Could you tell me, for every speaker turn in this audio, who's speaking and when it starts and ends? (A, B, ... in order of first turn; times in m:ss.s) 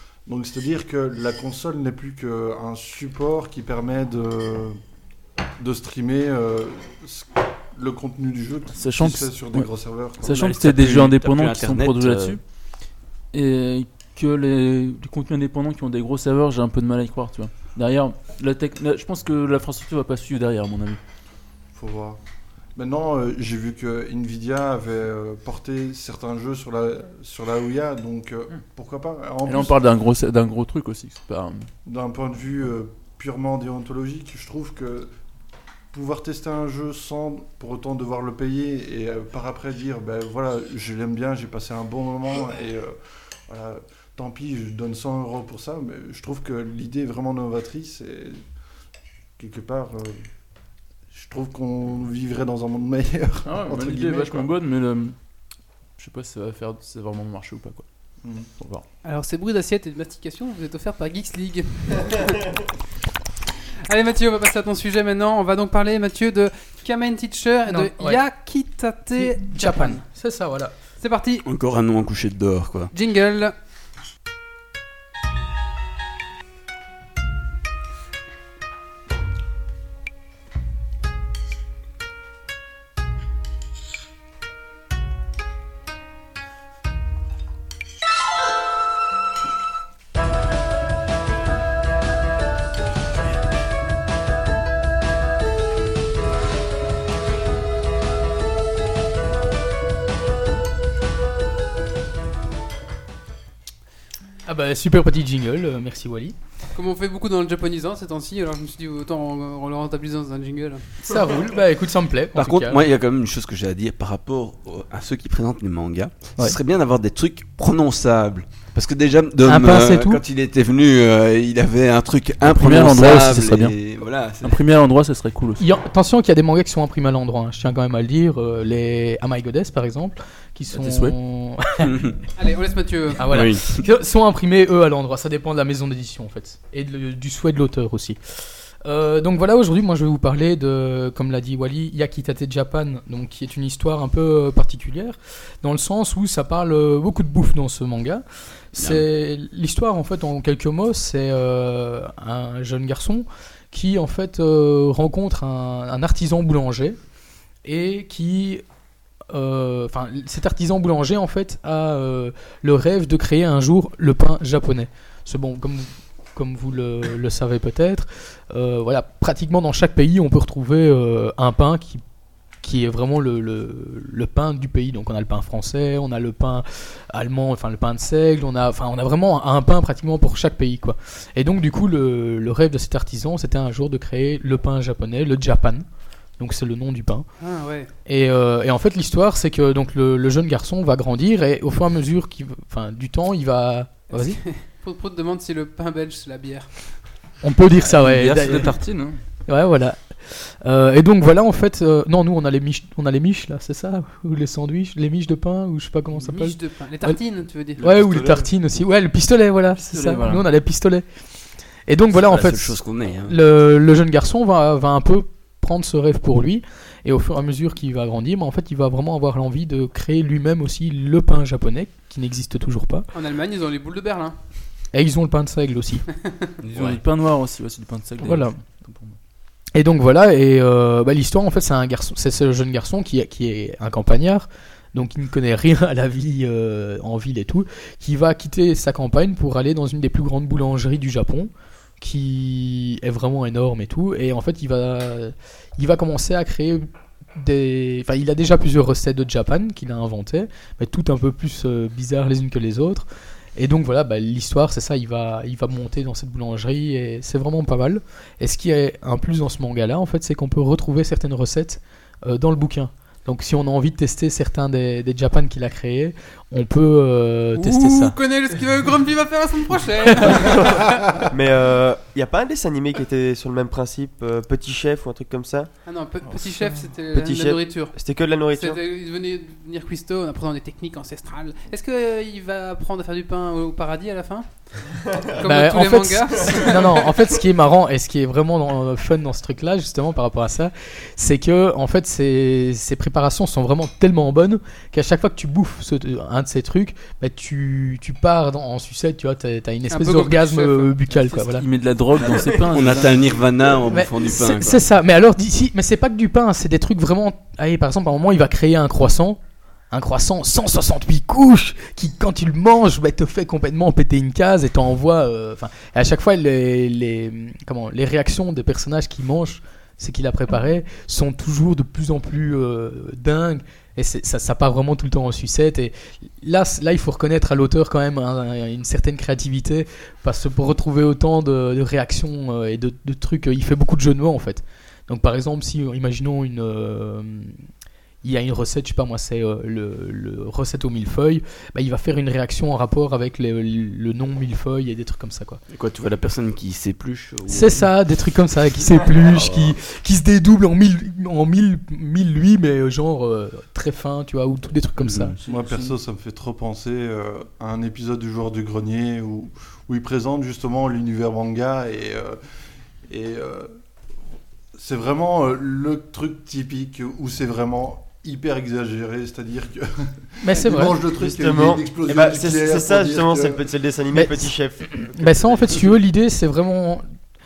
0:00.2-0:04.8 A
0:05.6-0:10.4 A
0:08.7-0:09.7 B
0:10.2-0:12.4 B
0:10.2-0:12.4 C
0:13.3-0:21.0 B
0:21.7-0:22.2 A
0:22.8-0:29.8 A
0:29.5-0:31.7 B
0:31.8-0:35.1 A
0:35.9-0:43.0 A
0:43.5-0:48.4 A
0:49.4-0:50.2 A
0:51.1-0:54.5 A
0:53.4-0:55.1 B
0:56.0-0:57.8 B
0:58.2-0:58.5 A
0:58.6-0:58.8 B
0:59.0-1:02.5 D
1:03.8-1:10.0 D
1:07.7-1:08.2 E
1:09.1-1:10.7 E
1:11.0-1:11.4 D
1:11.4-1:12.9 C
1:12.9-1:13.5 D
1:44.4-1:46.3 E
1:46.7-1:50.8 D
1:51.0-1:52.8 E
1:52.3-2:04.6 C
1:59.4-2:00.2 E
2:02.4-2:03.8 B
2:04.4-2:05.6 B
2:05.6-2:12.0 E
2:10.7-2:11.2 B
2:12.4-2:13.2 D
2:13.2-2:18.2 E
2:13.2-2:13.8 C
2:18.8-2:37.0 E
2:28.8-2:29.0 C
2:37.6-2:38.6 E
2:39.3-2:52.0 E
2:52.6-3:05.8 E
3:06.4-3:07.3 E
3:07.4-3:07.9 D
3:08.0-3:14.4 E
3:14.1-3:16.7 D
3:17.4-3:18.8 E
3:17.7-3:19.2 B
3:19.5-3:27.2 E
3:26.2-3:28.2 D
3:27.8-3:31.0 E
3:27.9-3:28.4 C
3:29.7-3:30.4 B
3:31.9-3:43.1 E
3:32.1-3:33.4 C
3:43.1-3:44.4 D
3:44.9-3:46.1 E
3:46.6-3:47.0 C
3:46.7-3:49.2 B
3:48.2-3:48.6 E
3:49.7-4:06.8 E
4:07.4-4:28.1 E
4:27.5-4:30.9 D
4:31.3-4:35.7 F
4:35.8-4:37.9 D
4:37.1-4:38.8 F
4:38.5-4:44.5 D
4:45.3-4:47.0 D
4:45.4-5:01.6 E
4:59.9-5:00.9 D
5:01.1-5:03.5 B
5:02.2-5:04.8 C
5:03.9-5:09.4 E
5:09.9-5:37.6 E
5:38.2-5:45.6 E
5:45.7-5:47.9 C
5:47.5-5:55.4 E
5:49.0-5:49.7 C
5:55.0-5:55.3 C
5:55.4-5:55.9 B
5:55.4-6:02.4 A
6:03.1-6:03.8 A
6:04.7-6:13.7 A
6:10.4-6:11.0 E
6:11.0-6:15.8 F
6:14.1-6:17.0 E